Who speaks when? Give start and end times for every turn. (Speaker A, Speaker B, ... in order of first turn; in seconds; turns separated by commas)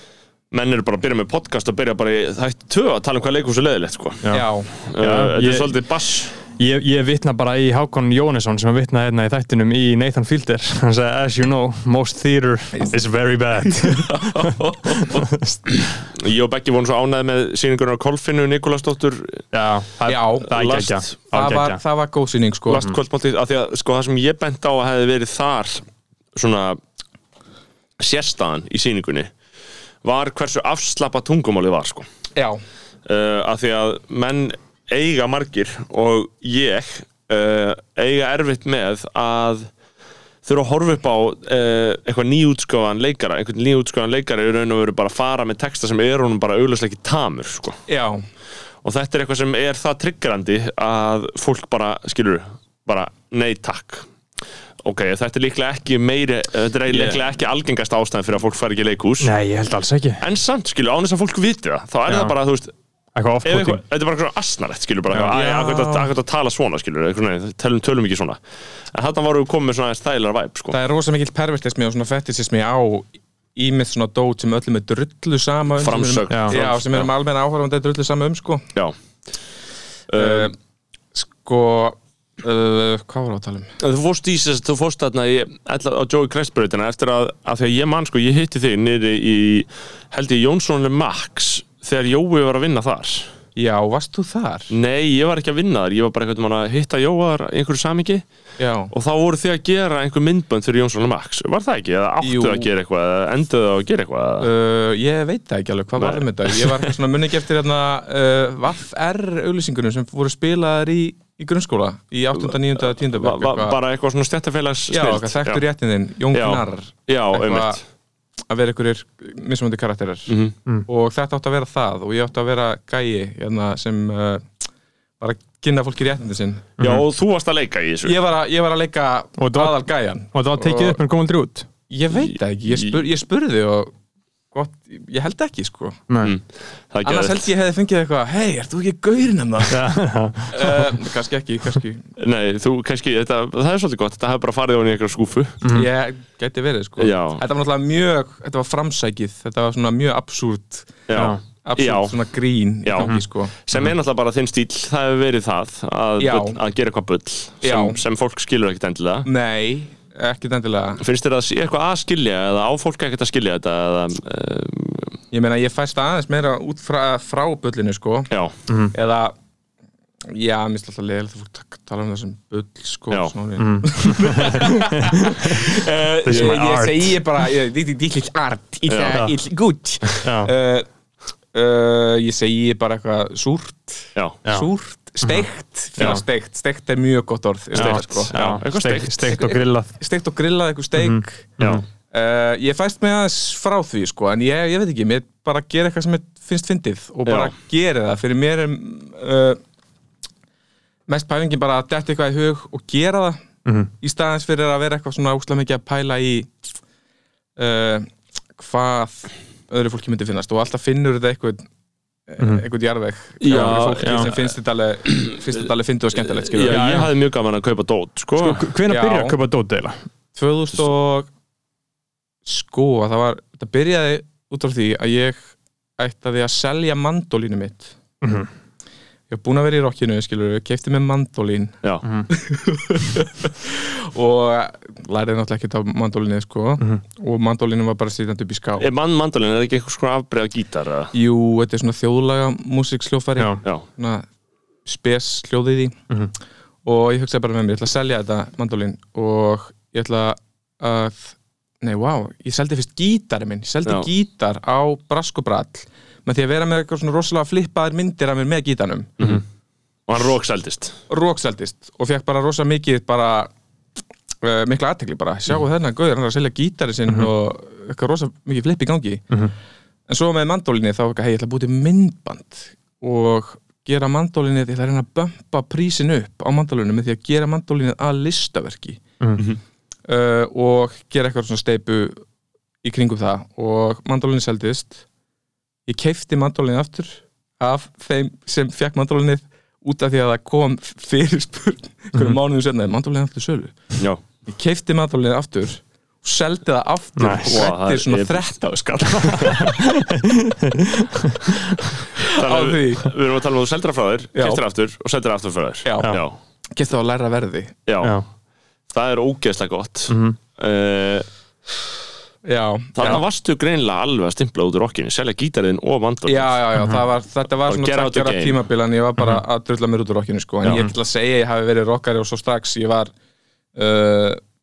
Speaker A: 0.5-4.2, Speaker B: 4.3-4.7, Speaker A: 4.8-6.3, Speaker C: 5.0-5.8, Speaker C: 6.6-16.0, Speaker B: 13.7-15.1, Speaker A: 16.0-19.4, Speaker C: 19.5-21.8, Speaker B: 20.1-20.5, Speaker A: 20.5-21.1, Speaker B: 21.3-22.9, Speaker A: 22.7-26.8, Speaker A: 28.0-29.3, Speaker A: 30.0-32.1, Speaker A: 33.0-39.7, Speaker A: 40.4-47.8, Speaker B: 47.9-48.2, Speaker A: 48.8-54.1, Speaker A: 54.8-59.3, Speaker C: 59.2-60.2, Speaker A: 60.2-62.7, Speaker C: 62.1-62.3, Speaker C: 63.1-63.8, Speaker A: 63.4-68.4, Speaker B: 65.3-66.1, Speaker A: 68.9-70.8, Speaker B: 70.7-78.7, Speaker A: 75.8-77.1, Speaker C: 76.3-76.5, Speaker A: 80.1-80.5, Speaker B: 80.1-80.5, Speaker B: 81.1-83.7, Speaker A: 83.8-93.3, Speaker B: 93.5-94.7, Speaker A: 94.7-98.2, Speaker B: 98.6-98.9, Speaker A: 98.9-104.5, Speaker B: 102.2-102.7, Speaker B: 104.4-113.8, Speaker A: 106.0-106.9, Speaker A: 112.4-115.6, Speaker B: 114.9-117.8, Speaker A: 116.3-117.8, Speaker B: 118.5-120.3, Speaker A: 120.3-120.5, Speaker B: 120.9-124.5, Speaker B: 125.2-126.7, Speaker C: 126.8-127.0, Speaker A: 126.8-128.2, Speaker B: 128.0-131.0, Speaker C: 129.4-129.8, Speaker C: 130.3-131.7, Speaker B: 131.9-133.9, Speaker A: 132.7-132.9, Speaker B: 134.5-136.1, Speaker A: 136.2-137.5, Speaker B: 137.0-139.8, Speaker C: 139.7-140.9, Speaker B: 140.5-142.1, Speaker A: 142.2-145.6, Speaker B: 145.7-153.5, Speaker A: 147.0-147.4, Speaker A: 151.1-152.2, Speaker C: 151.2-151.4, Speaker A: 152.8-159.3, Speaker B: 156.2-156.6, Speaker B: 157.6-158.0, Speaker B: 159.2-161.0, Speaker A: 161.0-165.2, Speaker B: 165.3-168.3, Speaker C: 168.7-168.9, Speaker B: 168.9-169.3, Speaker B: 170.2-180.9, Speaker C: 173.6-177.2, Speaker A: 178.9-179.2, Speaker C: 180.2-180.5, Speaker B: 181.5-188.6, Speaker A: 187.7-189.4, Speaker C: 187.7-189.9, Speaker B: 189.2-191.5, Speaker C: 191.0-191.8, Speaker A: 191.6-191.8, Speaker B: 192.1-199.6, Speaker A: 197.2-197.5, Speaker B: 201.1-203.4, Speaker C: 203.6-203.9, Speaker B: 204.0-206.5, Speaker B: 207.6-211.7, Speaker B: 212.3-216.8, Speaker A: 213.4-214.4, Speaker C: 214.0-214.3, Speaker A: 216.4-218.6, Speaker C: 216.7-217.1, Speaker C: 218.4-220.0, Speaker B: 218.9-219.4, Speaker B: 220.3-221.3, Speaker B: 222.4-227.9, Speaker C: 228.2-228.5, Speaker B: 229.3-238.9, Speaker A: 238.8-241.1, Speaker B: 241.1-244.2, Speaker B: 244.8-246.0, Speaker B: 246.8-259.2, Speaker A: 260.1-261.0, Speaker B: 261.1-263.5, Speaker B: 264.4-269.3, Speaker B: 270.1-279.0, Speaker B: 280.1-282.2, Speaker B: 282.8-285.0, Speaker B: 285.9-293.9, Speaker B: 294.4-299.7, Speaker C: 297.2-297.6, Speaker A: 297.4-298.5, Speaker C: 299.1-302.0, Speaker A: 299.4-299.7, Speaker B: 302.2-303.1, Speaker A: 302.2-306.4, Speaker B: 304.3-304.6, Speaker B: 305.8-306.2, Speaker B: 306.7-307.8, Speaker A: 307.9-308.1, Speaker C: 308.0-308.2, Speaker A: 308.9-311.3, Speaker C: 310.1-310.4, Speaker B: 312.4-313.2, Speaker A: 312.9-316.6, Speaker B: 316.3-323.1, Speaker A: 317.7-318.6, Speaker B: 323.7-324.4